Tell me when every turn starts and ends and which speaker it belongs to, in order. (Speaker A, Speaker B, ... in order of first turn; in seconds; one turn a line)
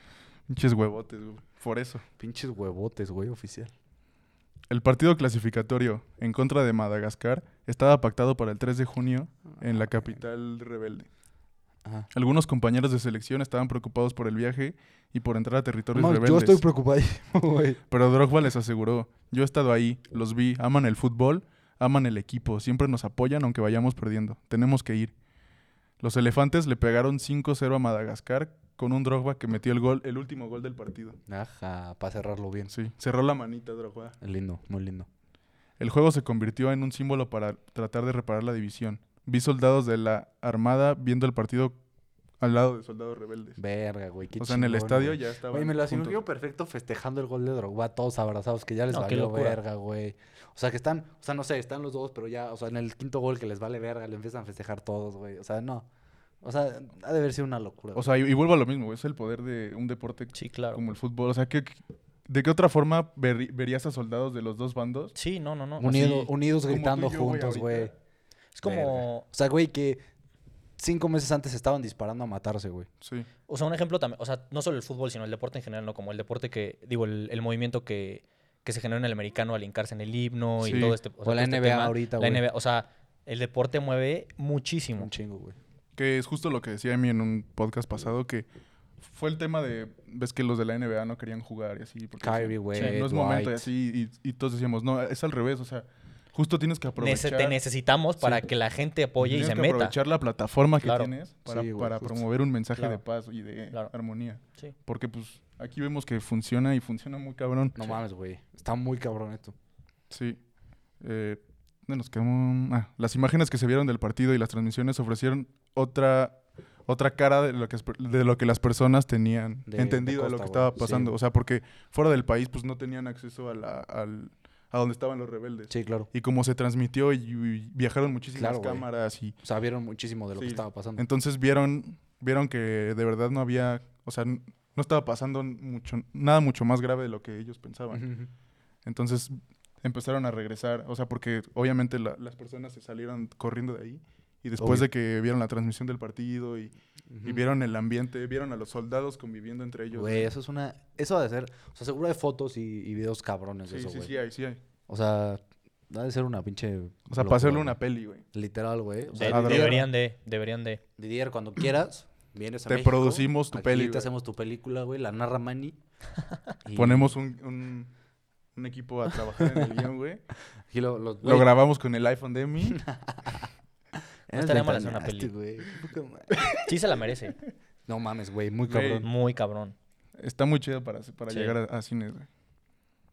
Speaker A: 0.5-2.0
Speaker B: 2.2-3.7
Speaker A: 4.7-11.1
Speaker A: 12.1-16.6
Speaker B: 15.9-17.8
Speaker A: 17.9-25.1
Speaker A: 26.0-31.2
Speaker B: 31.3-32.7
Speaker A: 32.7-34.2
Speaker B: 34.2-35.1
Speaker A: 35.8-41.7
Speaker A: 42.4-43.6
Speaker B: 43.6-55.9
Speaker A: 44.4-46.2
Speaker C: 48.9-49.6
Speaker B: 56.4-58.1
Speaker A: 57.9-65.1
Speaker C: 60.3-60.8
Speaker C: 65.1-66.0
Speaker B: 65.8-67.9
Speaker A: 65.8-67.9
Speaker C: 68.5-69.2
Speaker B: 68.6-70.0
Speaker B: 70.8-72.9
Speaker A: 73.0-73.3
Speaker C: 73.5-85.1
Speaker A: 80.6-81.0
Speaker B: 81.2-82.4
Speaker B: 85.0-85.6
Speaker A: 86.0-88.5
Speaker A: 89.0-97.6
Speaker B: 92.2-93.7
Speaker C: 97.0-99.9
Speaker A: 99.2-108.0
Speaker C: 100.8-101.1
Speaker B: 101.5-102.2
Speaker C: 102.7-103.0
Speaker B: 107.7-109.5
Speaker A: 110.1-110.4
Speaker A: 111.0-129.3
Speaker B: 119.7-121.1
Speaker B: 125.7-126.1
Speaker B: 128.3-128.9
Speaker B: 129.4-131.0
Speaker A: 130.3-138.1
Speaker B: 137.9-138.3
Speaker A: 138.8-150.3
Speaker B: 144.6-144.9
Speaker B: 147.1-147.4
Speaker B: 149.9-154.1
Speaker A: 153.7-154.6
Speaker B: 154.9-157.8
Speaker A: 157.1-158.2
Speaker B: 158.3-159.8
Speaker C: 159.1-160.8
Speaker A: 159.2-159.8
Speaker B: 161.0-165.8
Speaker A: 162.7-164.1
Speaker B: 166.6-167.1
Speaker A: 166.7-167.9
Speaker A: 168.6-170.2
Speaker B: 169.4-169.7
Speaker B: 170.7-171.5
Speaker A: 171.2-172.8
Speaker B: 172.6-173.5
Speaker B: 174.3-176.7
Speaker C: 174.3-175.3
Speaker C: 176.6-177.4
Speaker B: 177.9-179.1
Speaker A: 178.7-179.1
Speaker C: 179.0-179.7
Speaker A: 180.2-182.3
Speaker C: 181.3-181.5